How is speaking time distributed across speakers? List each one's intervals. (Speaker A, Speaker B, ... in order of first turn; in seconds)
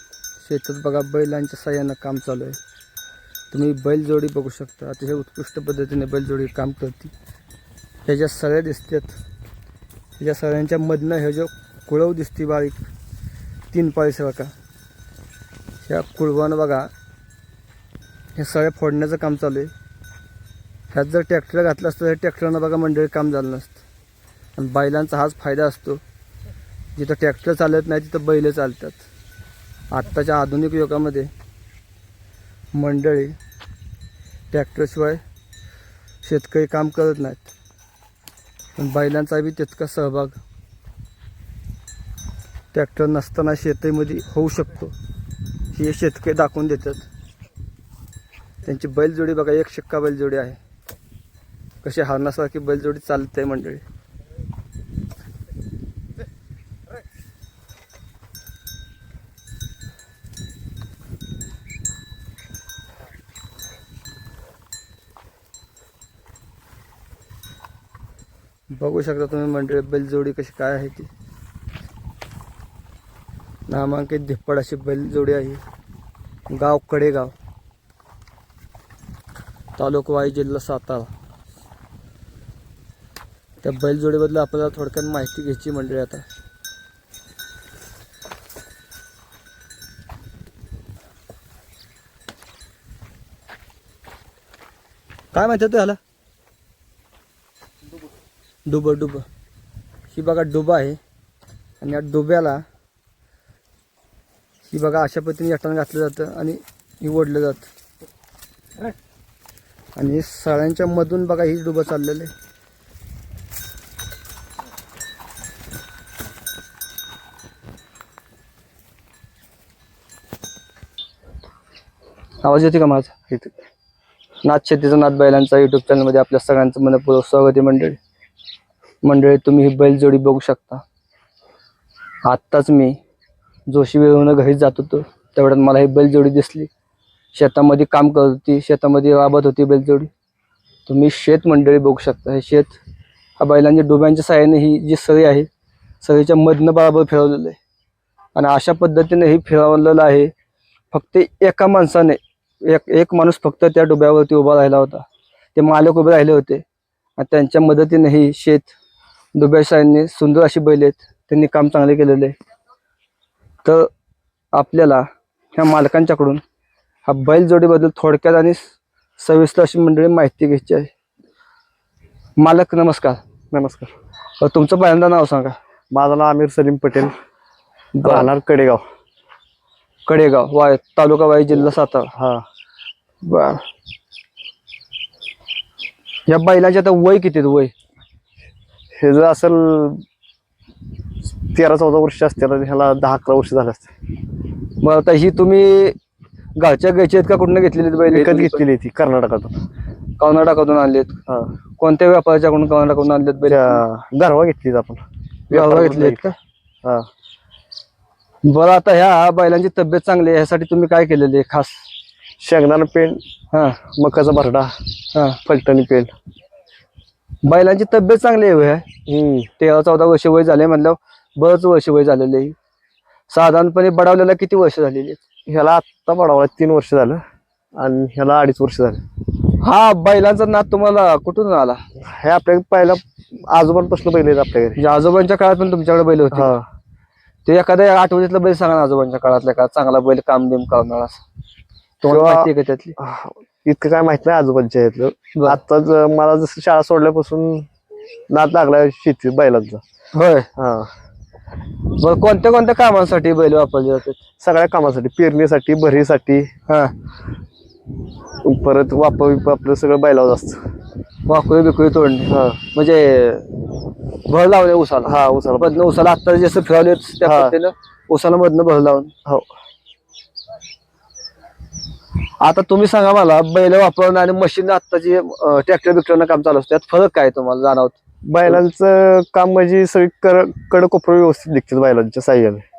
Speaker A: 0.4-2.6, 3.5-7.1, 8.1-9.1, 10.2-12.8, 13.7-14.5, 15.8-16.9, 18.4-19.7, 20.9-23.8, 24.6-26.0, 26.9-29.0, 29.9-31.3, 32.7-33.4, 34.5-35.2, 36.2-37.5, 38.8-40.4, 42.7-44.9, 45.7-47.0, 48.6-50.6, 51.8-53.8, 68.7-71.1, 73.7-75.6, 76.5-77.3, 79.8-81.1, 83.6-86.2, 95.3-96.0, 98.7-99.2, 100.1-101.0, 101.8-102.6, 104.7-107.7, 110.0-112.3, 122.4-123.1, 124.4-128.0, 129.0-130.8, 132.2-133.0, 133.7-136.7, 137.3-140.1, 140.9-142.8, 143.4-145.5, 146.0-147.6, 148.3-150.3, 150.9-156.6, 157.2-158.7, 159.3-162.3, 164.5-166.4, 167.1-168.6, 169.2-170.9, 172.4-173.2, 174.4-175.5, 177.9-178.3, 180.1-182.1, 183.2-183.6, 186.3-187.7, 194.8-195.9, 196.6-198.6, 200.2-201.2, 201.8-203.8, 205.5-206.3, 208.4-211.8, 213.5-213.8, 215.1-215.4, 217.4-218.9, 219.6-222.6, 223.3-225.2, 229.6-231.8, 234.8-236.5, 237.4-241.2, 242.0-242.9, 250.1-250.5, 251.9-254.2, 256.7-256.9, 261.3-263.6, 264.2-269.1, 272.4-278.6
Speaker B: 173.5-173.9, 175.9-177.1, 178.0-178.8, 182.2-182.4, 188.9-190.0, 191.4-193.9, 198.1-199.6, 203.5-206.3, 212.4-213.2, 213.9-214.7, 215.4-216.1, 219.1-219.5, 225.5-227.2, 227.8-229.0, 232.1-234.8, 236.3-236.6, 242.1-247.7, 248.3-249.8, 250.6-250.9, 254.4-256.5, 258.4-260.6, 262.3-262.6, 265.0-265.8, 267.2-267.5, 278.3-282.6